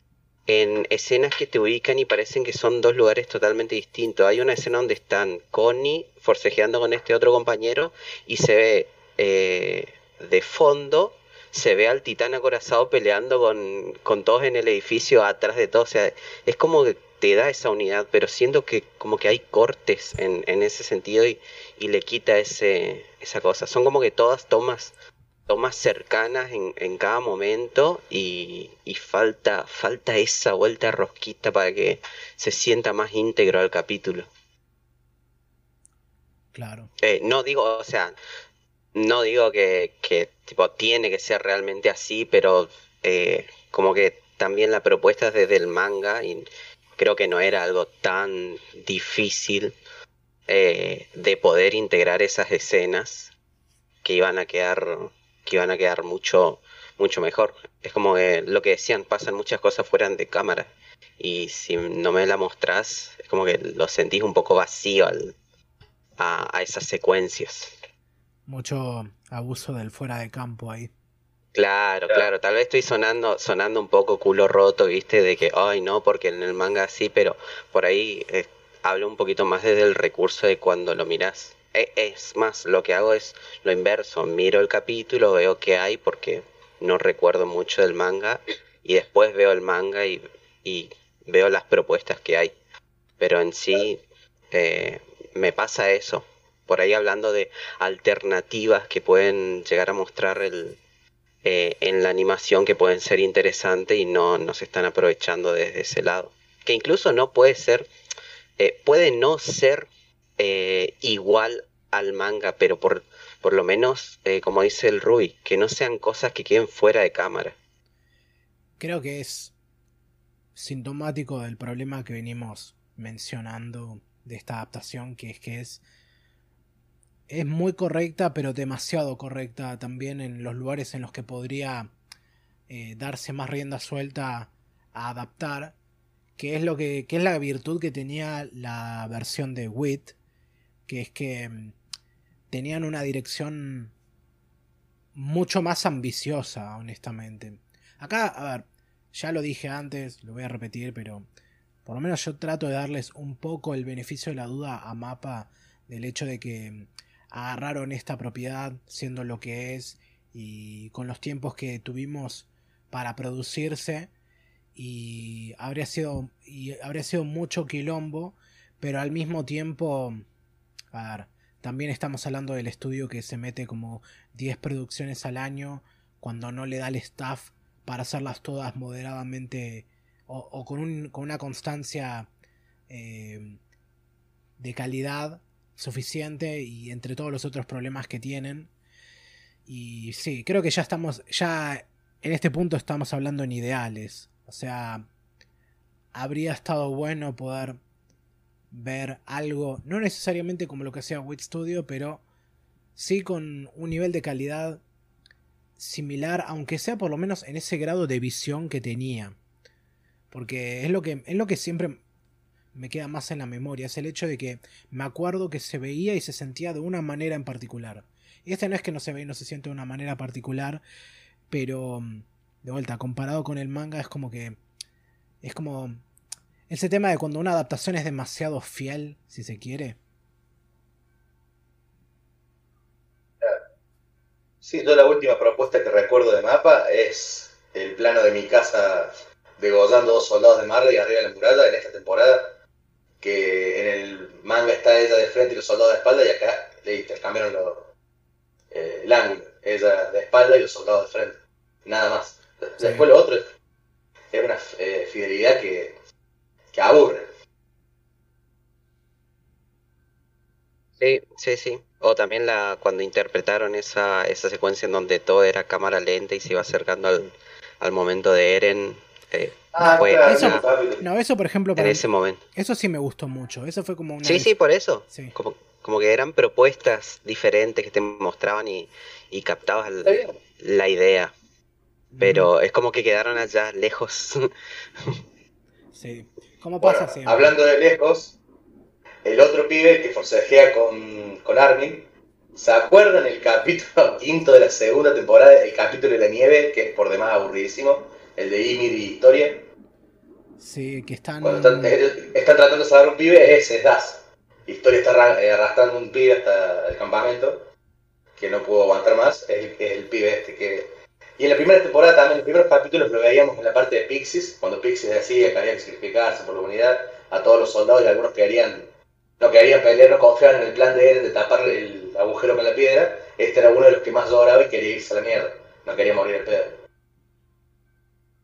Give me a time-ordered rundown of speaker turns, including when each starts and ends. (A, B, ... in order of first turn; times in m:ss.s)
0:00.5-0:24.9 A
0:25.5-0:34.3 A
0:36.5-0:36.9 B
0:37.0-0:38.2 A
0:38.9-0:49.7 A
0:50.5-0:53.3 A
0:54.0-1:05.3 A
1:06.2-1:07.7 A
1:08.5-1:10.9 B
1:11.5-1:32.5 A
1:33.2-1:40.8 A
1:41.4-1:47.9 A
1:48.6-1:57.6 A
1:58.8-1:59.5 B
2:00.5-2:05.8 B
2:07.3-2:11.9 B
2:12.7-2:15.7 B
2:16.4-2:20.1 B
2:20.9-2:21.7 B
2:22.5-2:23.9 B
2:25.1-2:31.2 B
2:31.8-2:44.1 B
2:44.8-2:50.2 B
2:50.9-3:02.3 B
3:02.9-3:03.6 B
3:04.6-3:08.7 B
3:09.7-3:15.0 B
3:16.1-3:17.8 B
3:18.7-3:22.2 B
3:23.0-3:24.8 B
3:25.8-3:29.4 B
3:30.3-3:32.0 B
3:32.7-3:40.8 B
3:41.5-3:44.6 B
3:45.4-3:46.0 B
3:46.7-3:50.0 B
3:54.6-4:02.6 C
4:03.2-4:07.9 C
4:08.7-4:13.5 C
4:12.8-4:13.1 B
4:14.3-4:16.0 C
4:16.7-4:17.3 C
4:21.0-4:30.6 A
4:29.7-4:31.0 C
4:29.8-4:32.0 B
4:31.8-4:32.4 A
4:32.5-4:34.5 B
4:34.2-4:41.3 A
4:40.0-4:40.4 C
4:42.1-4:42.5 B
4:42.2-4:44.5 A
4:45.9-4:47.5 B
4:46.8-4:48.4 C
4:49.2-4:59.7 C
5:00.6-5:02.0 B
5:01.4-5:07.7 C
5:08.4-5:18.9 C
5:19.4-5:26.8 C